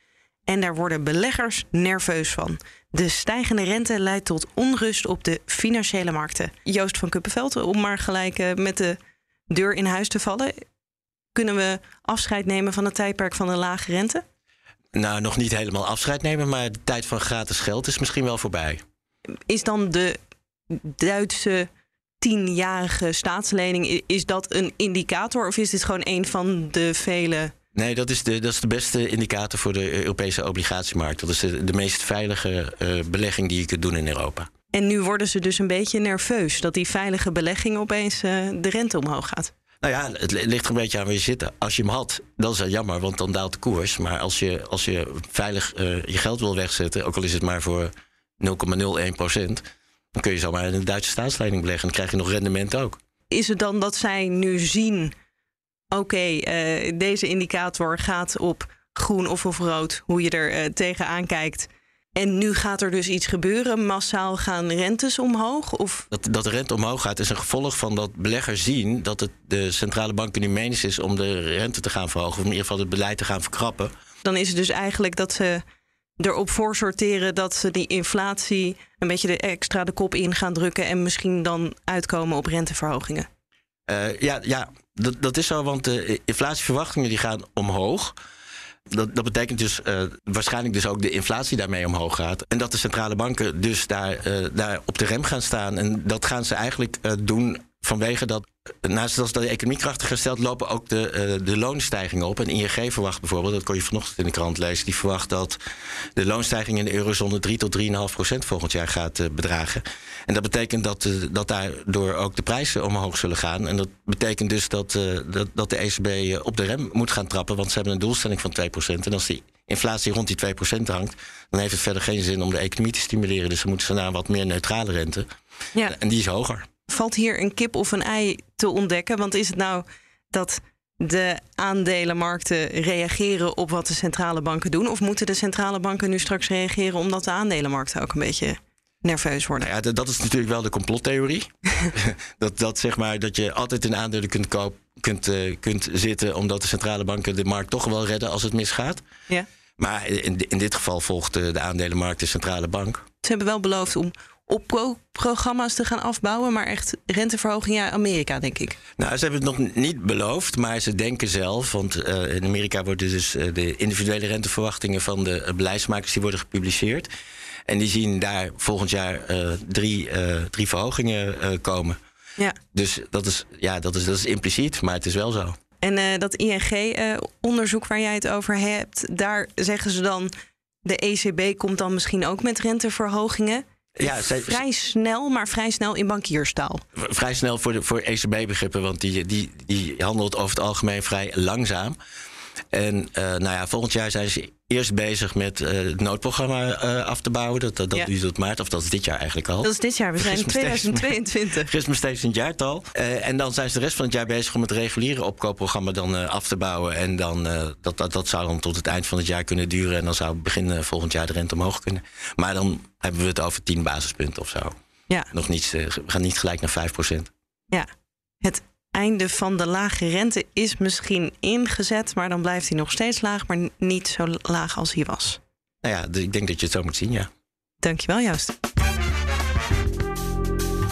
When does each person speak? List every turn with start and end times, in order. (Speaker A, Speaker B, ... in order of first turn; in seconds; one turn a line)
Speaker A: 0.5-9.0
Speaker A: 9.5-10.6
Speaker A: 11.3-14.2
Speaker B: 14.9-18.8
Speaker A: 19.5-20.2
Speaker A: 20.7-21.7
Speaker A: 22.2-27.5
Speaker B: 27.7-34.5
Speaker A: 34.7-39.5
Speaker B: 39.8-53.0
Speaker A: 53.3-55.1
Speaker A: 55.9-66.1
Speaker B: 66.1-73.9
Speaker A: 74.2-75.6
Speaker A: 76.2-83.3
Speaker B: 83.9-88.1
Speaker B: 88.9-105.6
Speaker B: 106.2-125.2
Speaker B: 125.8-126.7
Speaker A: 126.9-139.7
Speaker B: 139.6-149.0
Speaker B: 149.8-153.0
Speaker A: 153.2-158.8
Speaker B: 159.0-167.1
Speaker B: 167.7-172.0
Speaker B: 172.7-175.6
Speaker A: 175.8-180.3
Speaker A: 180.8-186.8
Speaker B: 184.0-184.6
Speaker B: 186.9-191.9
Speaker B: 192.7-201.1
Speaker A: 199.6-201.7
Speaker B: 201.7-214.7
Speaker B: 215.3-217.3
Speaker A: 218.4-225.4
Speaker B: 225.8-227.3
Speaker A: 227.8-228.5